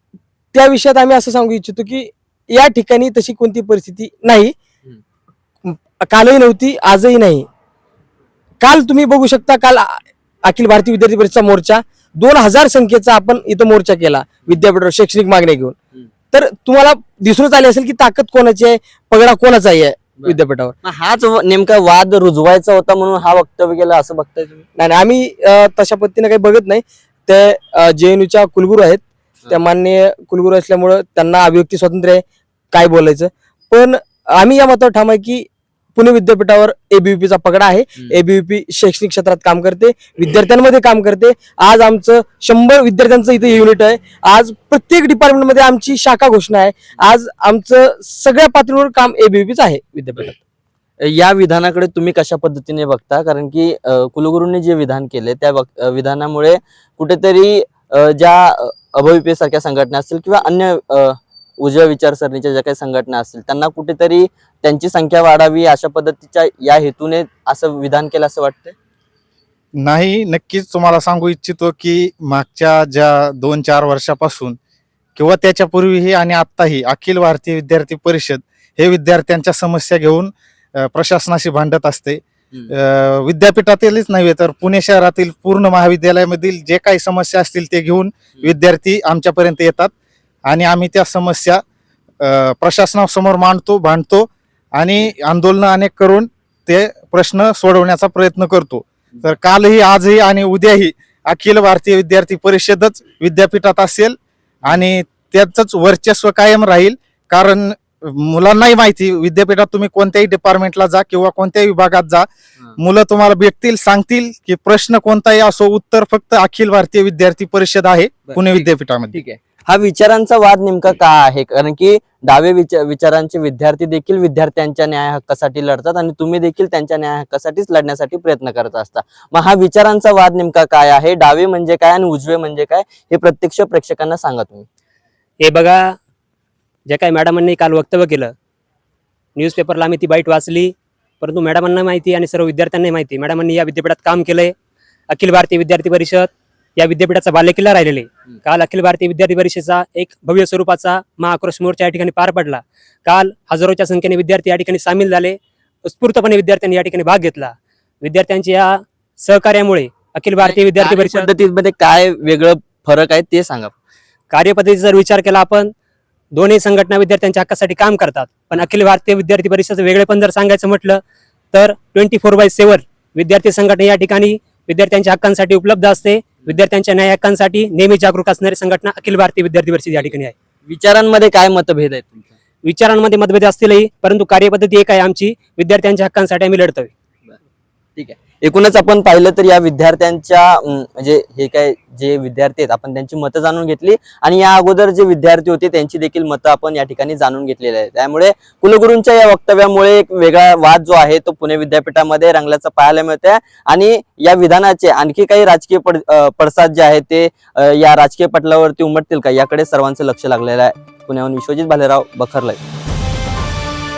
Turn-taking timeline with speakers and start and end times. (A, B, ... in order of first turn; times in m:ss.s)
0:00.5-0:04.6 A
0:05.6-0:07.5 A
0:08.6-0:15.8 A
0:16.3-0:20.7 A
0:20.2-0:24.7 B
0:24.8-0:50.3 A
0:51.0-1:08.8 B
1:09.8-1:14.6 C
1:15.2-1:29.9 C
1:30.5-1:31.6 C
1:32.2-1:52.3 C
1:52.8-1:59.2 C
1:58.3-2:14.7 B
2:15.4-2:15.9 D
2:16.9-2:18.3 D
2:19.4-2:24.5 D
2:25.1-2:41.3 D
2:40.4-2:43.7 B
2:44.3-2:45.7 D
2:46.3-2:51.0 D
2:51.5-3:00.3 D
3:00.7-3:02.3 B
3:02.6-3:06.9 D
3:08.0-3:32.6 B